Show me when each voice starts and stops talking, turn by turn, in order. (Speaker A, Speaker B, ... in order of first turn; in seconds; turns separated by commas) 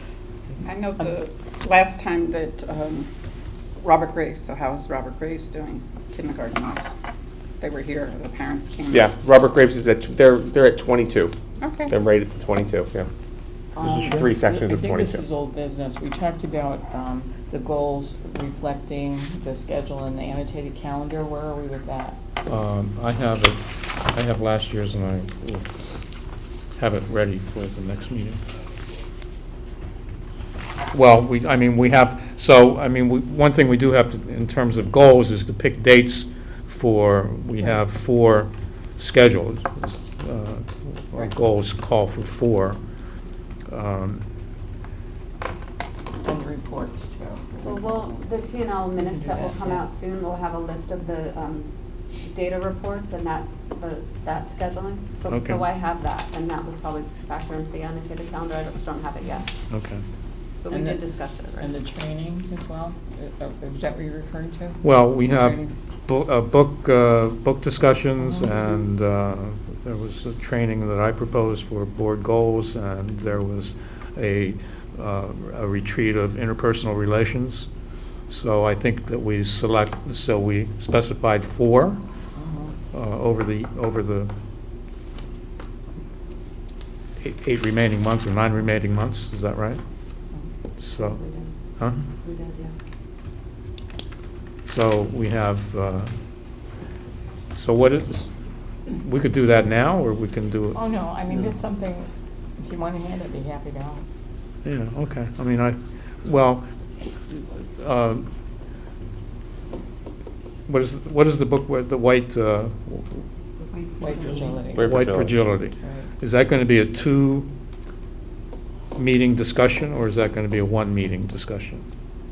Speaker A: 0.7-3.1, Speaker A: 3.8-6.9, Speaker A: 7.6-9.1, Speaker B: 8.9-11.3, Speaker A: 11.6-11.9, Speaker B: 11.9-13.1, Speaker C: 13.8-22.2, Speaker B: 13.8-15.2, Speaker D: 22.5-25.7, Speaker D: 26.8-28.4, Speaker D: 30.9-42.8, Speaker D: 43.7-44.2, Speaker C: 46.2-48.2, Speaker E: 47.6-51.7, Speaker C: 49.0-49.8, Speaker E: 52.3-59.5, Speaker D: 55.3-55.6, Speaker D: 59.7-60.0, Speaker E: 60.6-61.7, Speaker C: 60.7-61.0, Speaker C: 61.6-65.8, Speaker D: 64.8-77.7, Speaker D: 78.3-82.0, Speaker C: 82.4-82.8, Speaker D: 82.9-84.3, Speaker D: 87.2-89.8, Speaker D: 90.8-91.2, Speaker E: 91.0-91.5, Speaker D: 91.8-92.0, Speaker E: 92.2-92.8, Speaker D: 94.7-96.1, Speaker D: 97.5-98.3, Speaker D: 99.0-100.8, Speaker C: 100.7-104.1, Speaker D: 104.6-106.7, Speaker D: 107.3-108.3, Speaker D: 110.7-113.2, Speaker E: 113.6-114.4, Speaker C: 114.0-114.9, Speaker B: 114.7-115.4, Speaker D: 114.8-117.5, Speaker C: 115.8-116.1, Speaker D: 119.0-121.8